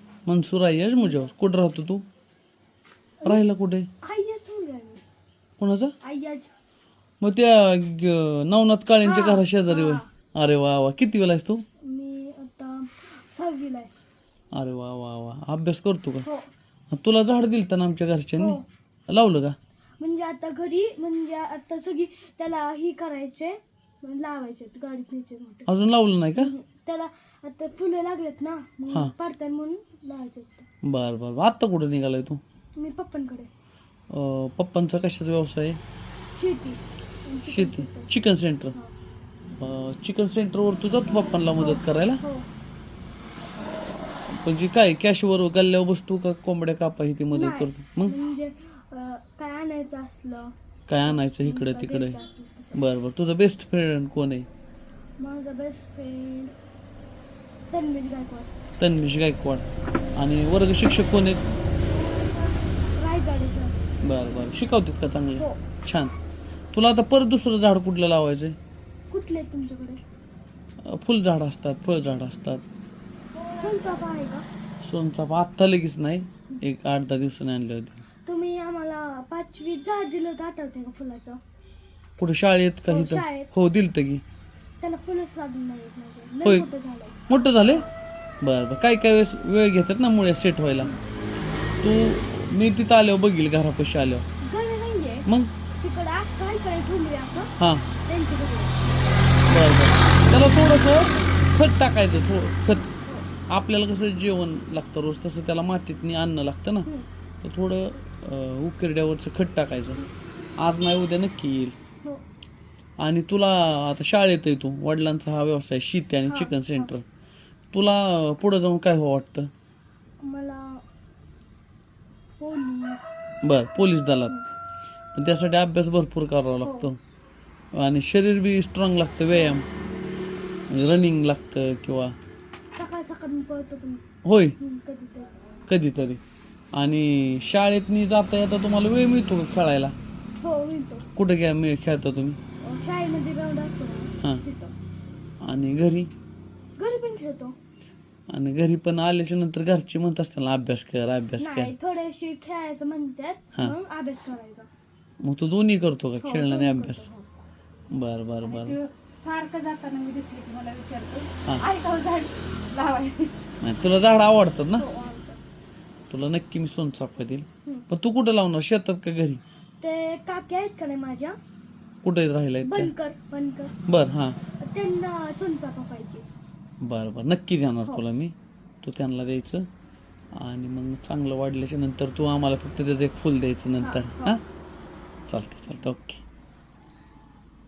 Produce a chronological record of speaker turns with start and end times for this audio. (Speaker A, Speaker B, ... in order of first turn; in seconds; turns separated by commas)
Speaker A: 0.3-2.0, Speaker B: 1.0-1.3, Speaker A: 3.2-3.9, Speaker B: 4.0-5.0, Speaker A: 5.6-5.9, Speaker B: 6.0-6.5, Speaker A: 7.2-11.7, Speaker B: 9.0-10.1, Speaker B: 11.8-13.9, Speaker A: 14.5-16.3, Speaker B: 16.2-16.5, Speaker A: 16.9-19.6, Speaker B: 18.4-18.6, Speaker B: 20.0-25.7, Speaker A: 25.7-26.5, Speaker B: 26.4-30.7, Speaker A: 30.8-32.4, Speaker B: 32.8-33.5, Speaker A: 34.1-35.8, Speaker B: 36.3-38.1, Speaker A: 37.5-38.8, Speaker A: 39.6-42.2, Speaker B: 41.6-42.5, Speaker A: 44.3-48.1, Speaker B: 47.3-50.5, Speaker A: 50.9-52.2, Speaker B: 51.0-52.8, Speaker A: 52.7-54.5, Speaker B: 55.2-56.5, Speaker B: 57.7-58.5, Speaker A: 58.8-61.5, Speaker B: 62.9-63.9, Speaker A: 64.0-66.1, Speaker B: 65.4-65.6, Speaker A: 66.7-68.6, Speaker B: 69.1-70.0, Speaker A: 70.8-72.6, Speaker B: 73.5-74.5, Speaker A: 74.8-78.0, Speaker B: 78.3-81.4, Speaker A: 82.2-84.2, Speaker B: 82.9-83.5, Speaker B: 84.8-87.9, Speaker A: 87.3-87.8, Speaker A: 88.4-90.9, Speaker A: 91.8-94.2, Speaker B: 94.4-95.3, Speaker A: 95.3-95.5, Speaker B: 95.8-97.5, Speaker A: 97.6-97.9, Speaker B: 98.1-98.8, Speaker A: 99.5-102.9, Speaker A: 103.5-106.9, Speaker A: 107.4-110.0, Speaker A: 110.6-111.8, Speaker A: 113.0-117.0, Speaker B: 116.3-116.9, Speaker A: 117.7-119.5, Speaker B: 120.2-120.8, Speaker B: 122.4-123.2, Speaker A: 123.4-124.4, Speaker A: 125.1-127.0, Speaker B: 126.6-126.9, Speaker A: 127.7-129.7, Speaker B: 129.3-129.6, Speaker A: 130.7-132.2, Speaker B: 132.7-134.0, Speaker A: 134.2-134.6, Speaker B: 134.6-135.3, Speaker A: 135.7-136.2, Speaker A: 136.7-139.9, Speaker B: 140.4-141.1, Speaker A: 141.2-142.4, Speaker B: 142.6-144.7, Speaker A: 145.4-146.1, Speaker B: 146.8-147.6, Speaker A: 148.3-151.7, Speaker B: 151.4-154.7, Speaker A: 155.2-157.1, Speaker B: 156.2-157.3, Speaker A: 157.9-158.8, Speaker C: 158.4-163.4, Speaker A: 163.6-164.9, Speaker B: 164.8-165.4, Speaker A: 166.1-169.4, Speaker B: 169.8-171.4, Speaker A: 172.0-172.9, Speaker B: 172.6-173.8, Speaker A: 173.9-174.4, Speaker B: 174.6-176.3, Speaker A: 176.8-179.7, Speaker A: 180.3-184.4, Speaker B: 183.8-184.4, Speaker A: 185.3-186.2